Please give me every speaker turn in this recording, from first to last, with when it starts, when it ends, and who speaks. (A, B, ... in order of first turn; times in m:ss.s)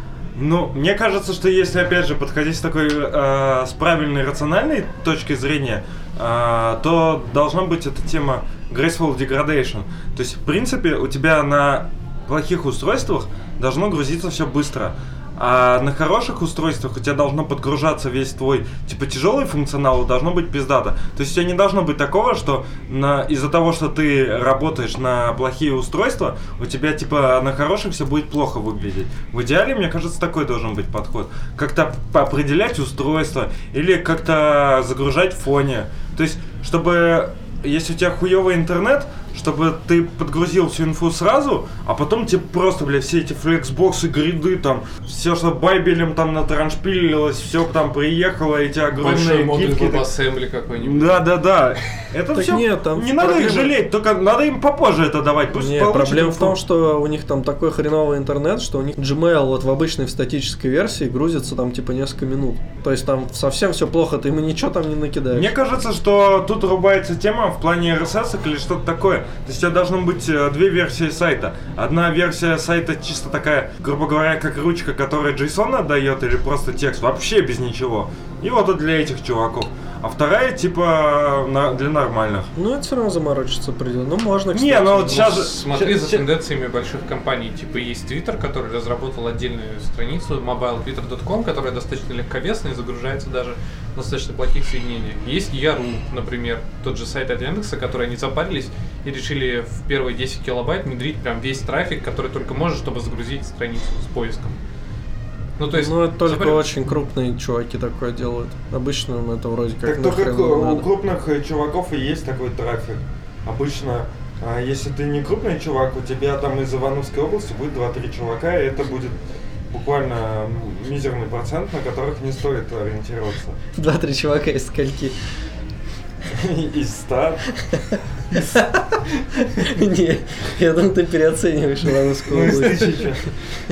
0:00.4-0:50.1 A
0:49.0-0:51.2 B
0:50.8-0:56.6 A
0:52.3-0:53.8 C
0:55.5-1:05.5 C
1:05.3-1:22.5 A
1:22.6-1:25.6 C
1:24.5-1:26.3 A
1:25.2-1:44.6 B
1:45.6-1:46.7 B
1:45.7-1:50.9 C
1:49.8-1:59.2 A
1:59.7-2:03.6 A
2:03.8-2:05.2 C
2:06.3-2:07.4 A
2:07.8-2:08.7 C
2:09.4-2:13.1 C
2:12.2-2:13.3 A